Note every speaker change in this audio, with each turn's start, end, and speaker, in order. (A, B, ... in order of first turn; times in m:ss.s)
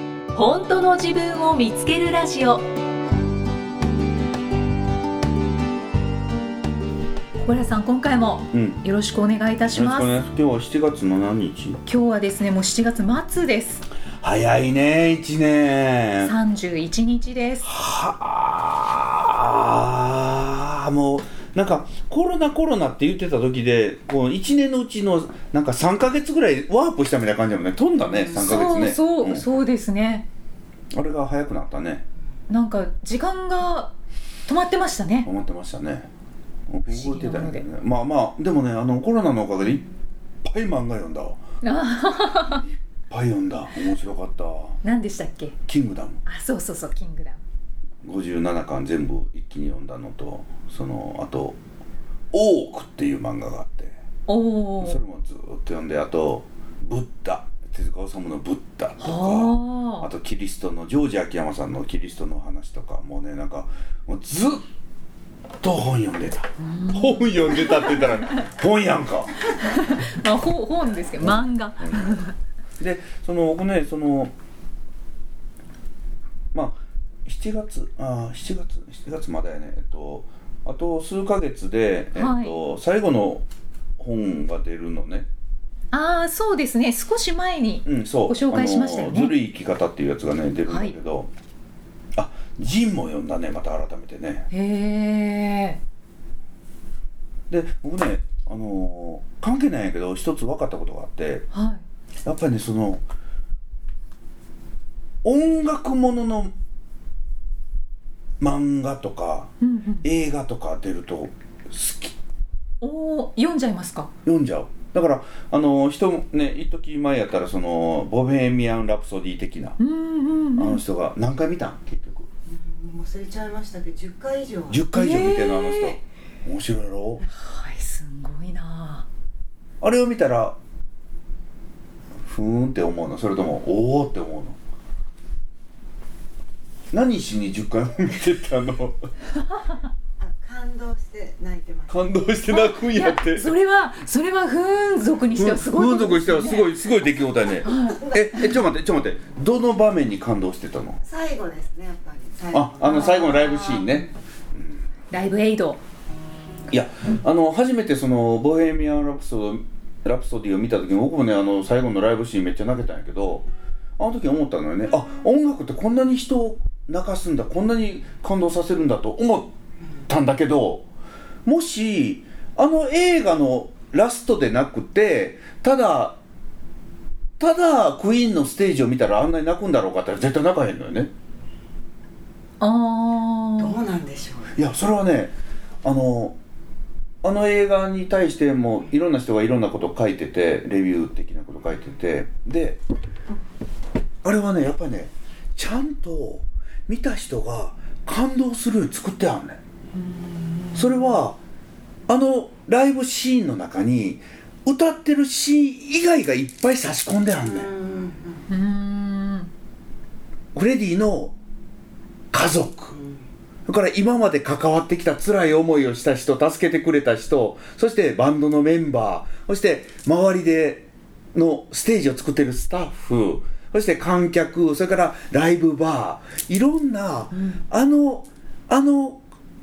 0:00.3-0:02.6 A
0:07.4-0:10.1 A
0:08.5-0:08.8 B
0:09.7-0:11.8 B
0:11.9-0:13.8 A
0:14.2-0:16.3 B
0:16.2-0:17.7 A
0:17.6-0:29.4 B
0:28.2-0:30.3 A
0:30.9-0:32.0 B
0:32.5-0:33.9 A
0:34.5-0:35.3 A
0:35.2-0:36.1 B
0:36.7-0:39.8 B
0:36.9-0:37.6 A
0:40.4-0:41.4 B
0:41.6-0:42.6 A
0:42.6-0:44.8 B
0:44.8-0:45.6 A
0:45.7-0:46.2 B
0:46.3-0:47.4 A
0:48.0-0:51.6 B
0:52.3-0:53.9 B
0:54.3-0:55.0 A
0:54.8-1:04.6 B
0:59.0-1:00.1 A
1:05.6-1:09.5 B
1:06.6-1:08.3 A
1:09.6-1:12.3 A
1:11.2-1:12.2 B
1:12.8-1:14.3 B
1:16.5-1:23.4 B
1:22.2-1:22.6 A
1:24.0-1:25.3 B
1:25.9-1:29.4 A
1:27.9-1:31.3 B
1:30.7-1:30.9 A
1:32.2-1:34.5 B
1:34.5-1:35.8 A
1:37.5-1:41.5 B
1:41.5-1:41.8 A
1:42.2-1:43.0 B
1:45.2-1:46.5 B
1:48.4-1:49.5 B
1:49.6-1:50.0 A
1:50.0-1:52.2 B
1:52.8-1:54.1 A
1:54.2-1:59.8 B
1:59.8-2:00.8 A
2:00.6-2:02.3 B
2:02.5-2:04.8 C
2:04.7-2:07.2 B
2:04.9-2:06.0 A
2:07.4-2:09.1 A
2:09.8-2:10.6 B
2:12.2-2:14.6 B
2:16.9-2:19.0 B
2:20.2-2:22.2 C
2:21.9-2:23.5 B
2:22.5-2:28.0 A
2:25.4-2:31.0 B
2:27.7-2:28.4 C
2:31.0-2:33.2 C
2:32.5-2:34.8 B
2:32.8-2:33.9 A
2:35.1-2:35.8 A
2:36.7-2:43.5 B
2:44.0-2:49.5 B
2:50.1-2:50.9 B
2:51.4-2:56.2 B
2:57.4-3:01.1 B
3:02.6-3:03.8 A
3:03.6-3:04.6 C
3:04.6-3:06.4 B
3:07.2-3:12.8 B
3:14.2-3:19.6 B
3:20.5-3:20.8 A
3:20.8-3:21.4 B
3:22.1-3:27.7 B
3:27.4-3:28.5 C
3:28.5-3:29.5 A
3:30.6-3:31.4 B
3:32.3-3:33.0 B
3:33.0-3:33.2 C
3:33.7-3:49.2 B
3:47.3-3:47.6 A